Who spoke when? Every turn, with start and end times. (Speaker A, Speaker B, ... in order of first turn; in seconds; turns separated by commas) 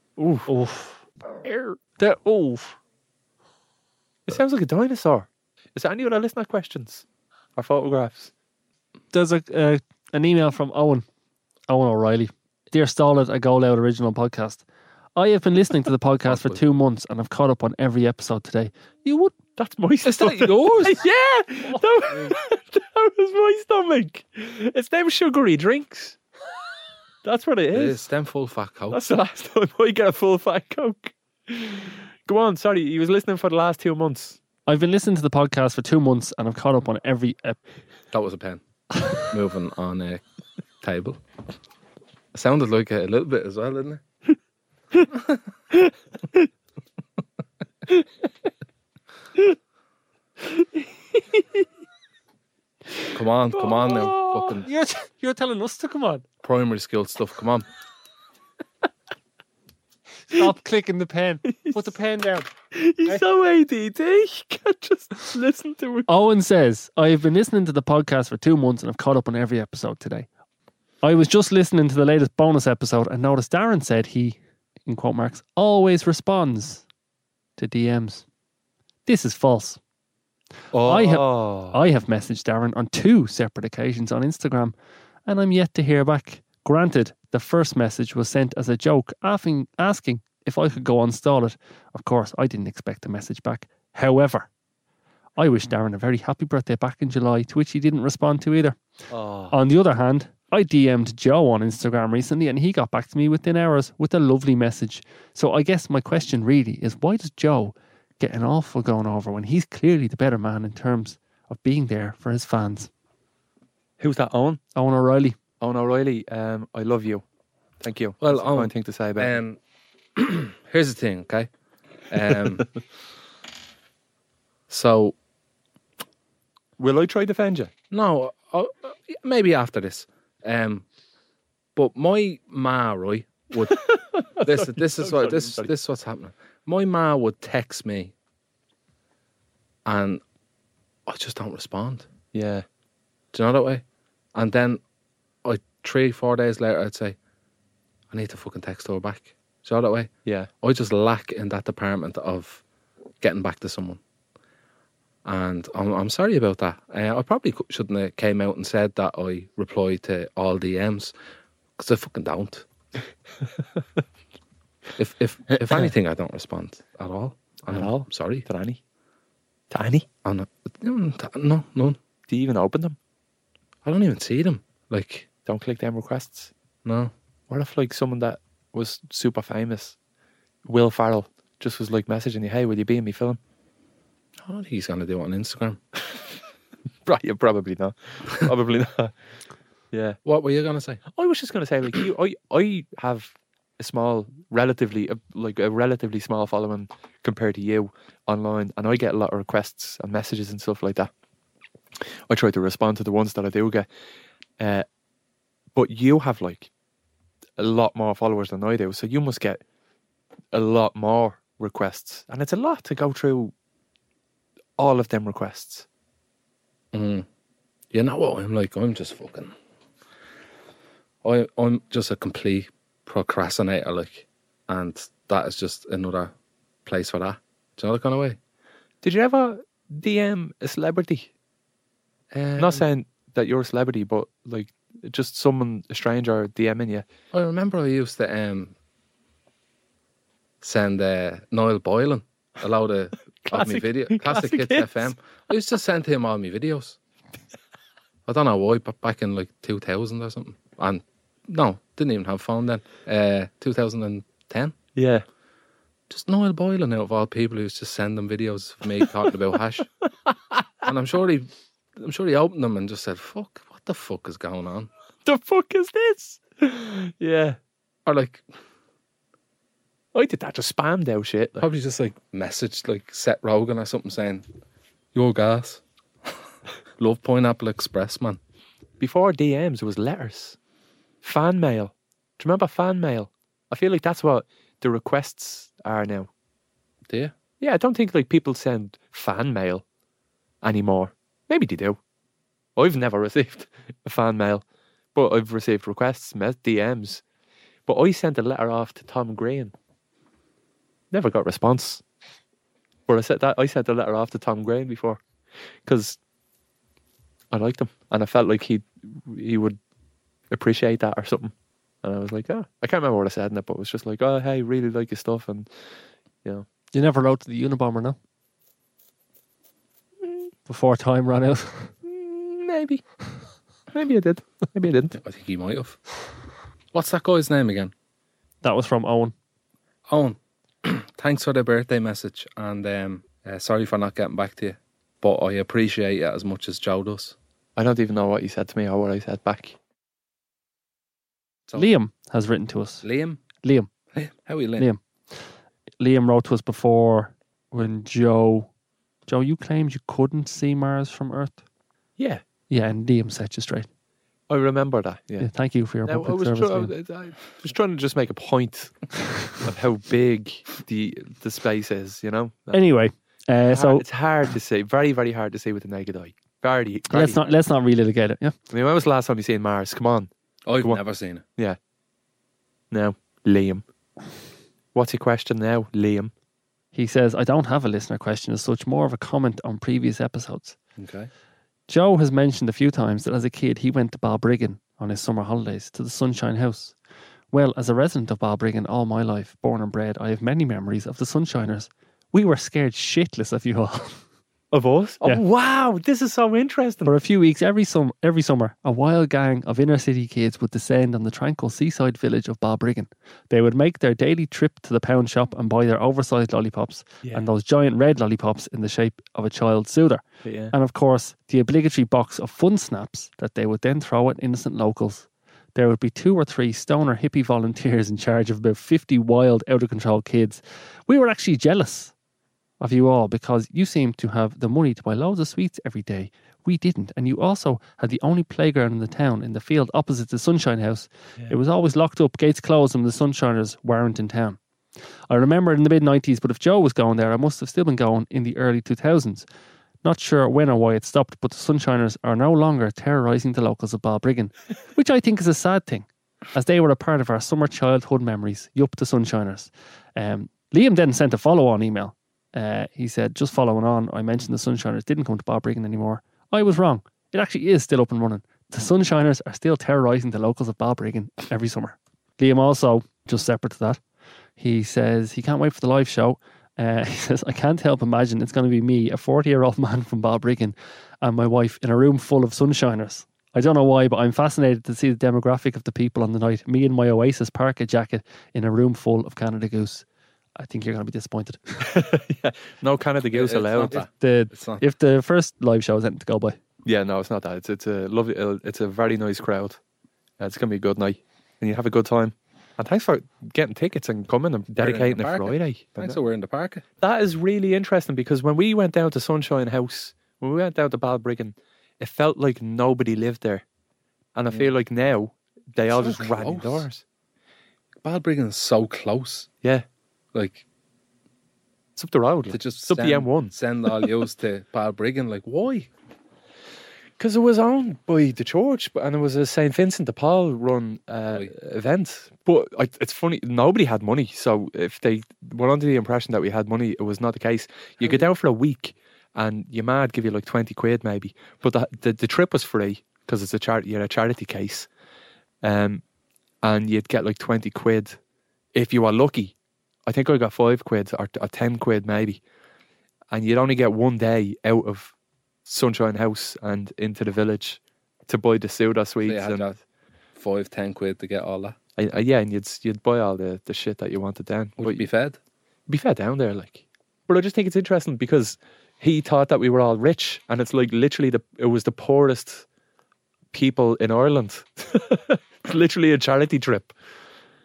Speaker A: 0.2-0.5, Speaker B: 0.5-2.8, Speaker A: 4.2-7.0, Speaker A: 7.5-8.3, Speaker B: 9.1-11.0, Speaker B: 11.7-14.6, Speaker B: 15.2-19.4, Speaker C: 16.3-16.6, Speaker A: 19.6-26.2, Speaker C: 20.0-21.0, Speaker B: 21.7-22.3, Speaker A: 27.2-28.0, Speaker C: 27.7-29.0, Speaker A: 28.9-34.4, Speaker B: 34.7-37.6, Speaker C: 38.1-38.6, Speaker C: 39.2-40.2, Speaker C: 40.8-41.2, Speaker C: 42.3-44.0, Speaker A: 45.7-46.5, Speaker A: 50.5-51.6, Speaker C: 53.1-54.7, Speaker A: 53.5-54.6, Speaker B: 54.6-56.2, Speaker C: 56.4-57.6, Speaker B: 60.3-62.5, Speaker A: 61.5-61.8, Speaker A: 62.7-66.1, Speaker B: 66.1-70.3, Speaker B: 71.0-76.8, Speaker B: 77.6-78.2, Speaker B: 79.0-79.8, Speaker A: 80.7-81.8, Speaker B: 80.8-84.7, Speaker B: 85.2-94.5, Speaker B: 95.4-98.8, Speaker A: 99.1-99.5, Speaker B: 99.5-112.9, Speaker A: 114.0-114.6, Speaker B: 114.7-115.3, Speaker A: 115.6-117.2, Speaker A: 117.8-119.4, Speaker C: 118.2-119.6, Speaker C: 120.2-121.5, Speaker C: 122.1-122.7, Speaker C: 124.7-125.2, Speaker A: 126.8-127.7, Speaker C: 127.9-130.8, Speaker C: 131.8-133.9, Speaker A: 133.7-135.7, Speaker C: 134.4-138.1, Speaker C: 139.8-140.2, Speaker C: 141.1-142.1, Speaker A: 142.3-142.7, Speaker C: 143.3-143.8, Speaker C: 144.3-144.8, Speaker C: 145.4-147.2, Speaker C: 148.1-150.1, Speaker C: 150.6-152.6, Speaker C: 153.2-154.0, Speaker C: 155.2-161.1, Speaker C: 161.8-162.7, Speaker C: 165.0-168.4, Speaker A: 167.7-168.8, Speaker A: 169.7-170.1, Speaker C: 170.2-172.0, Speaker A: 172.3-173.0, Speaker C: 173.8-175.3, Speaker A: 175.4-176.5, Speaker C: 176.8-177.1, Speaker A: 177.5-179.9, Speaker A: 180.7-183.4, Speaker C: 184.4-185.8, Speaker A: 187.1-189.1, Speaker A: 189.9-190.2, Speaker C: 190.2-191.0, Speaker A: 191.1-201.1, Speaker A: 202.3-203.9, Speaker A: 204.6-204.8, Speaker A: 205.7-206.7, Speaker A: 207.6-209.6, Speaker A: 210.5-213.5, Speaker A: 214.8-215.8, Speaker C: 216.9-217.2, Speaker C: 217.9-219.5, Speaker C: 221.2-226.3, Speaker C: 226.8-228.4, Speaker A: 229.0-231.3, Speaker C: 232.3-232.8, Speaker A: 232.6-237.1, Speaker C: 237.3-238.7, Speaker C: 240.6-247.0, Speaker A: 243.4-245.1, Speaker C: 248.2-254.7, Speaker A: 254.9-255.2, Speaker C: 256.1-259.9, Speaker A: 260.3-260.6, Speaker C: 260.8-264.9, Speaker A: 265.2-267.6, Speaker C: 268.1-268.4, Speaker A: 270.1-271.6, Speaker C: 271.6-274.4, Speaker C: 275.1-275.8, Speaker C: 277.0-278.4, Speaker A: 279.0-280.6, Speaker A: 281.2-286.3, Speaker A: 287.6-289.8, Speaker A: 290.6-292.0, Speaker A: 292.8-297.2, Speaker A: 297.9-299.7, Speaker A: 301.1-302.0, Speaker A: 303.1-305.2, Speaker A: 305.8-306.2, Speaker A: 307.5-309.8, Speaker A: 310.5-315.7, Speaker B: 316.9-318.2, Speaker B: 320.7-321.9, Speaker A: 322.0-323.0, Speaker A: 323.9-325.2, Speaker C: 325.2-326.0, Speaker C: 326.9-327.9, Speaker B: 328.6-329.3, Speaker C: 330.1-337.3, Speaker A: 337.8-339.8, Speaker B: 341.7-343.0, Speaker C: 343.0-343.4, Speaker B: 343.6-343.9, Speaker C: 344.1-344.9, Speaker B: 346.0-348.7, Speaker B: 349.3-351.6, Speaker A: 352.2-352.4, Speaker B: 352.7-353.9, Speaker A: 354.5-355.5, Speaker B: 355.4-356.9, Speaker A: 356.0-362.8, Speaker B: 362.7-364.0, Speaker A: 363.7-367.4, Speaker B: 367.1-368.6, Speaker A: 368.7-370.3, Speaker C: 370.7-371.4, Speaker A: 372.9-373.8, Speaker A: 374.9-376.3, Speaker B: 376.9-380.8, Speaker C: 381.0-381.3, Speaker B: 381.9-386.9, Speaker B: 387.5-394.2, Speaker A: 394.7-397.1, Speaker B: 397.0-422.1, Speaker A: 410.4-410.7, Speaker B: 422.8-434.6, Speaker B: 435.3-439.4, Speaker B: 440.0-464.0, Speaker B: 464.6-481.9, Speaker A: 481.8-484.0, Speaker C: 483.3-484.8, Speaker B: 483.9-486.6, Speaker A: 486.8-489.8, Speaker A: 490.4-496.2, Speaker C: 494.8-496.8, Speaker A: 497.0-503.6, Speaker A: 504.3-507.0, Speaker C: 505.9-506.9, Speaker C: 508.0-509.5, Speaker C: 510.3-510.6, Speaker A: 511.9-513.5, Speaker C: 512.5-515.9, Speaker A: 517.2-534.9, Speaker A: 535.6-536.0, Speaker A: 536.6-538.2, Speaker A: 538.7-539.5, Speaker A: 540.0-542.4, Speaker A: 543.3-545.1, Speaker A: 545.6-549.7, Speaker C: 549.2-549.8, Speaker C: 550.4-551.8, Speaker A: 552.0-555.0, Speaker C: 554.8-555.4, Speaker A: 555.9-562.6, Speaker A: 563.5-566.9